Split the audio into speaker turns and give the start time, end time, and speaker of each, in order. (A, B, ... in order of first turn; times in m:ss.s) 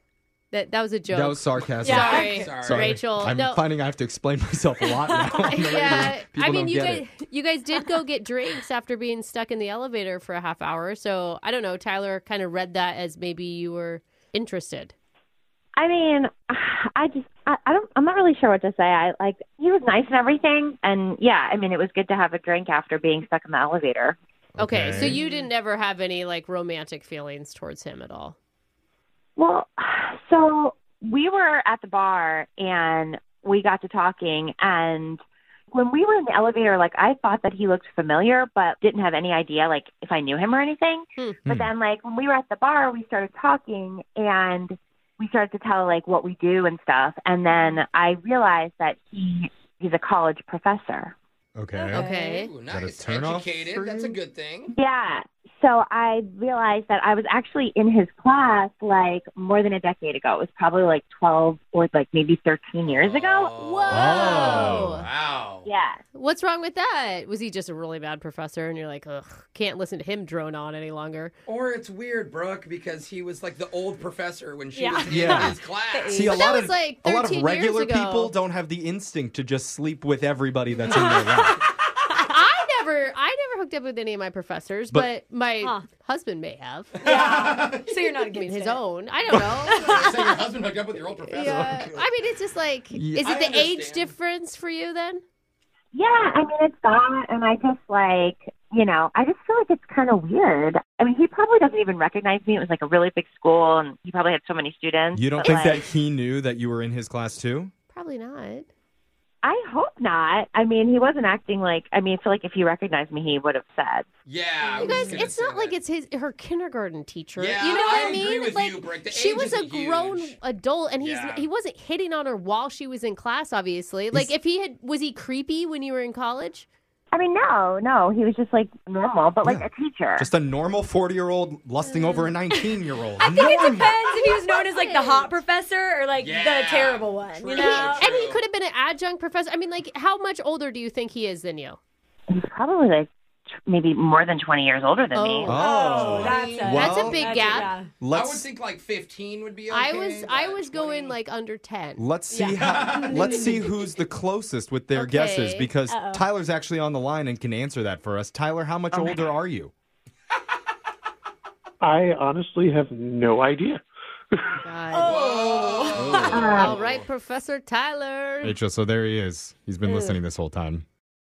0:00.5-0:03.6 A
0:01.1-0:07.1 B
0:01.8-0:02.5 C
0:02.0-0:02.9 D
0:05.1-0:06.0 C
0:05.5-0:14.9 A
0:15.8-0:24.2 E
0:24.6-0:25.2 B
0:24.6-0:28.4 A
0:29.4-0:51.1 E
0:47.5-0:47.8 A
0:51.6-0:52.1 B
0:51.8-0:52.4 C
0:51.9-0:52.5 A
0:52.3-0:54.8 D
0:52.7-0:54.2 B
0:54.7-1:03.5 E
1:02.8-1:05.7 D
1:03.6-1:05.1 A
1:03.9-1:05.0 B
1:05.6-1:06.0 E
1:06.1-1:11.3 A
1:11.5-1:16.3 D
1:14.7-1:16.5 C
1:15.1-1:21.6 B
1:16.2-1:18.3 A
1:20.9-1:21.6 C
1:22.2-1:27.0 A
1:27.0-1:28.0 D
1:27.0-1:28.8 C
1:28.3-1:30.3 A
1:29.7-1:31.9 D
1:29.7-1:30.2 C
1:31.3-1:35.2 A
1:31.4-1:32.0 B
1:32.9-1:33.4 B
1:33.2-1:34.1 D
1:35.9-1:45.8 E
1:45.2-1:47.7 B
1:47.9-1:48.7 A
1:49.4-1:54.1 E
1:54.2-1:55.8 D
1:54.8-2:06.7 A
1:54.8-1:55.1 C
1:57.4-2:00.3 D
2:01.0-2:01.5 D
2:07.1-2:10.3 E
2:09.4-2:14.0 B
2:11.8-2:12.3 A
2:13.2-2:18.1 C
2:14.5-2:15.4 A
2:16.2-2:18.4 D
2:17.5-2:21.8 A
2:22.3-2:23.1 E
2:23.7-2:25.7 E
2:25.1-2:27.7 A
2:25.4-2:28.5 B
2:25.5-2:27.9 C
2:25.8-2:26.6 D
2:28.1-2:31.2 D
2:29.7-2:32.0 A
2:32.0-2:39.7 B
2:32.3-2:33.6 C
2:32.5-2:33.6 D
2:34.9-2:35.7 A
2:35.9-2:36.3 C
2:41.8-2:43.8 F
2:44.3-2:44.6 F
2:44.6-2:45.2 A
2:44.9-2:46.5 C
2:45.0-2:47.1 D
2:46.0-2:46.7 B
2:46.3-2:46.8 E
2:46.4-2:48.6 A
2:48.4-2:50.8 B
2:49.9-2:50.2 C